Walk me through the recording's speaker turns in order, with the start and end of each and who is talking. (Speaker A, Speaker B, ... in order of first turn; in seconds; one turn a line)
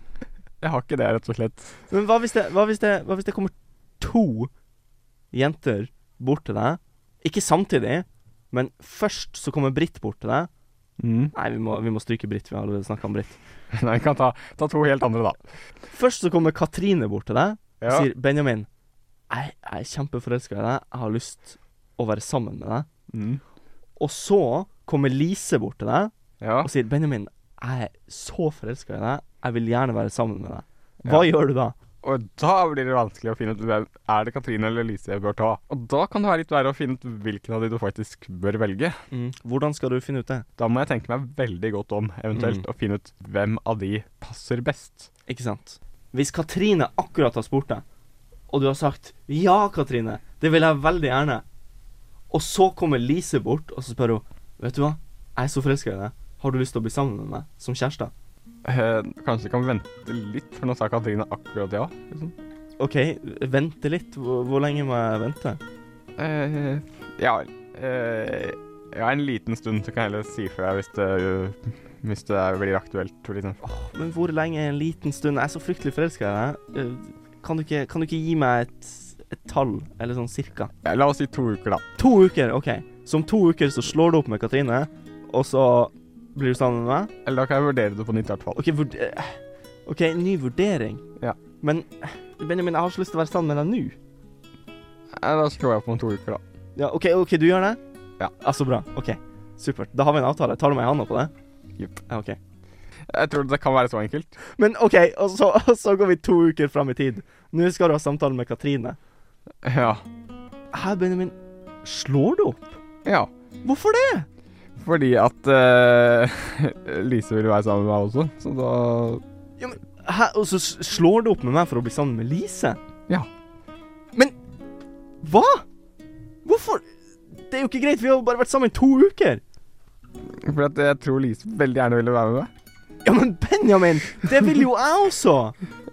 Speaker A: 0.6-1.8
Speaker B: 1.9-4.5
Speaker B: 5.3-10.5
Speaker A: 11.0-11.3
Speaker B: 11.3-13.4
Speaker A: 13.7-15.4
Speaker B: 15.9-18.7
Speaker A: 17.8-18.1
Speaker B: 19.3-22.9
Speaker A: 23.1-23.4
Speaker B: 24.0-31.7
Speaker A: 26.4-26.7
Speaker A: 31.0-31.3
Speaker A: 32.0-39.0
Speaker B: 39.1-40.4
Speaker A: 40.6-45.1
Speaker B: 42.3-42.6
Speaker B: 45.3-47.8
Speaker B: 48.5-51.4
Speaker B: 52.3-58.1
Speaker A: 58.6-62.3
Speaker B: 62.8-65.6
Speaker A: 66.2-73.6
Speaker B: 73.6-80.7
Speaker A: 80.8-81.8
Speaker B: 82.0-87.1
Speaker A: 87.2-88.6
Speaker B: 88.5-91.0
Speaker B: 91.6-94.0
Speaker A: 95.1-96.4
Speaker B: 96.8-97.8
Speaker B: 98.4-101.3
Speaker B: 102.1-102.4
Speaker A: 103.1-104.4
Speaker B: 104.4-109.0
Speaker A: 109.6-110.0
Speaker B: 110.7-112.8
Speaker A: 113.0-113.3
Speaker B: 113.6-114.3
Speaker A: 114.8-119.2
Speaker B: 119.6-122.8
Speaker B: 125.2-125.7
Speaker B: 126.4-129.4
Speaker A: 130.2-132.5
Speaker B: 133.0-135.6